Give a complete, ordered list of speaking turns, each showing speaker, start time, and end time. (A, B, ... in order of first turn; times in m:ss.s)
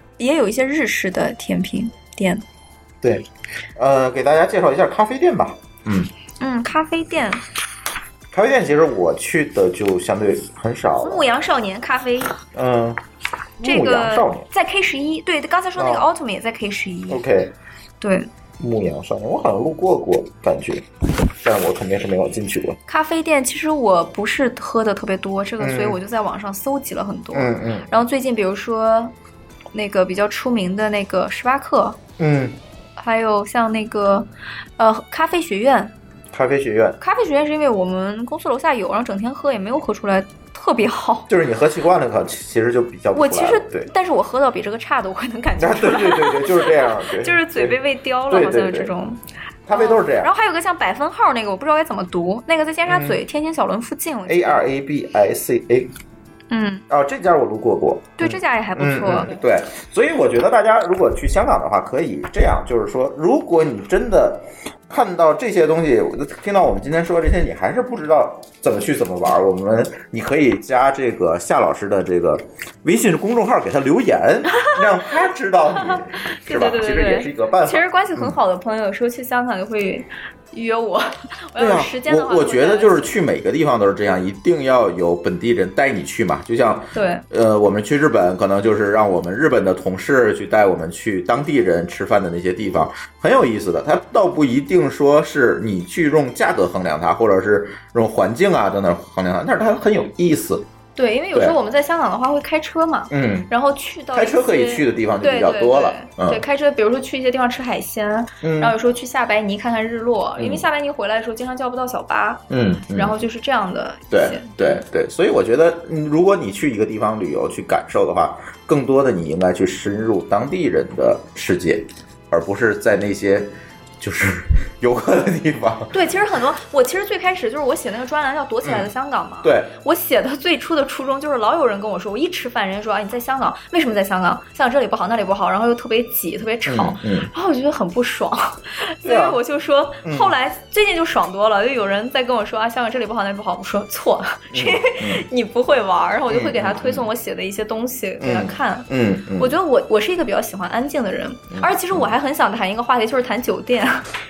0:00.2-0:02.4 A
0:03.8-0:06.1 B
0:06.4-0:07.4 A
0:08.3-0:11.2 B
0:11.0-0:12.4 A
0:12.5-0:13.0 B
0:13.6-0:14.5 B
0:13.6-0:17.2 A
0:15.8-0:16.0 B
0:17.1-0:17.5 B
0:18.0-0:18.3 A
0:18.6-0:22.8 B
0:22.9-0:29.1 A
0:25.6-0:26.0 B
0:27.3-0:27.9 B
0:29.7-0:32.0 A
0:32.2-0:32.6 B
0:33.0-0:35.9 A
0:36.3-0:37.0 B
0:37.0-0:41.3 A
0:41.3-0:43.9 B
0:43.1-0:49.2 A
0:45.6-0:48.9 B
0:49.7-0:50.3 B
0:49.7-0:54.6 A
0:52.8-0:53.2 B
0:54.2-0:55.9 B
0:56.5-0:56.8 A
0:56.9-1:18.4 B
0:58.2-0:59.4 A
1:16.3-1:23.1 A
1:21.6-1:40.6 B
1:26.9-1:27.2 A
1:41.0-1:54.8 A
1:43.1-1:43.5 B
1:44.1-1:46.4 B
1:48.4-1:48.7 B
1:50.4-1:50.6 B
1:52.5-1:53.2 B
1:54.1-2:05.9 B
2:05.9-2:34.0 A
2:08.6-2:08.9 B
2:09.4-2:09.7 B
2:16.6-2:17.3 B
2:19.0-2:19.4 B
2:20.0-2:20.3 B
2:24.5-2:25.2 B
2:26.3-2:27.1 B
2:28.2-2:29.5 B
2:31.5-2:32.1 B